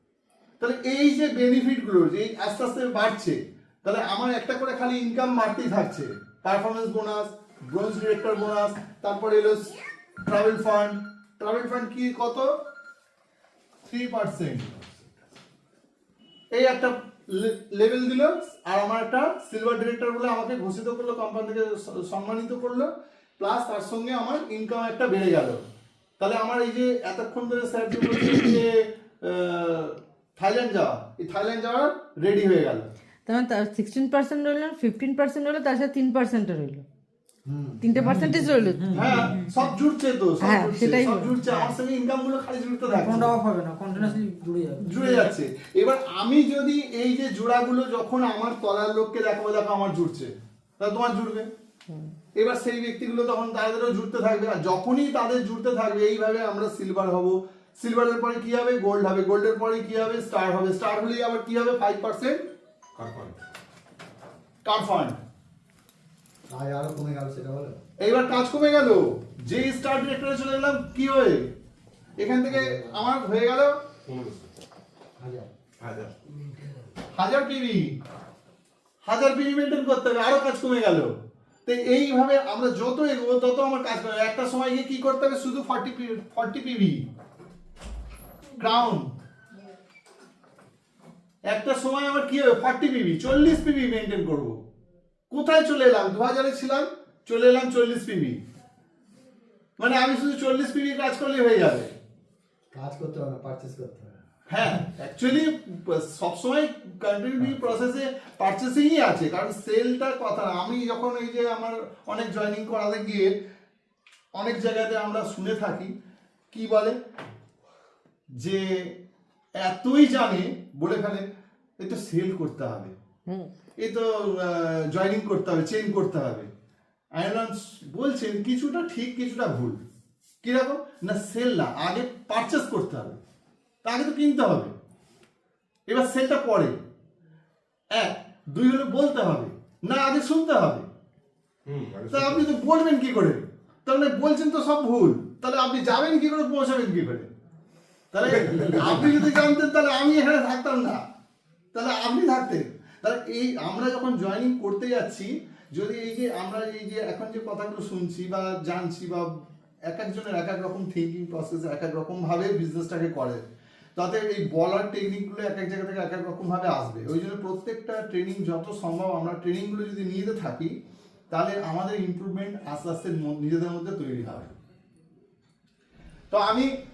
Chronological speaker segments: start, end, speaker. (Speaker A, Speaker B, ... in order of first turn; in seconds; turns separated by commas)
Speaker A: 0.6-12.5, Speaker A: 13.8-15.0, Speaker A: 16.5-25.6, Speaker A: 26.2-32.9, Speaker B: 33.2-36.9, Speaker C: 37.5-39.2, Speaker B: 37.8-39.3, Speaker D: 38.8-39.6, Speaker A: 38.9-43.4, Speaker B: 40.4-41.3, Speaker D: 41.4-41.7, Speaker D: 42.9-45.3, Speaker A: 44.8-51.5, Speaker B: 51.9-52.1, Speaker A: 52.4-62.4, Speaker E: 63.0-63.4, Speaker A: 64.6-65.2, Speaker C: 66.5-67.8, Speaker A: 68.0-71.5, Speaker A: 72.2-73.8, Speaker C: 72.5-73.0, Speaker E: 74.0-74.5, Speaker C: 75.2-75.5, Speaker E: 75.8-76.1, Speaker A: 77.1-78.0, Speaker A: 79.0-87.1, Speaker A: 88.6-89.1, Speaker A: 91.5-94.6, Speaker A: 95.3-98.4, Speaker A: 99.8-101.9, Speaker C: 102.7-104.2, Speaker A: 104.5-113.3, Speaker A: 114.4-115.9, Speaker A: 116.5-117.0, Speaker A: 118.4-119.0, Speaker A: 119.6-121.2, Speaker A: 121.8-122.9, Speaker B: 123.3-123.5, Speaker A: 123.8-126.5, Speaker A: 127.2-129.8, Speaker A: 130.4-133.2, Speaker A: 133.8-134.7, Speaker A: 135.9-136.8, Speaker A: 137.9-140.9, Speaker E: 141.7-142.5, Speaker A: 142.1-147.3, Speaker A: 148.1-151.0, Speaker E: 148.4-149.1, Speaker A: 151.7-159.3, Speaker A: 159.9-163.4, Speaker A: 164.0-170.7, Speaker A: 171.3-174.5, Speaker A: 176.3-176.8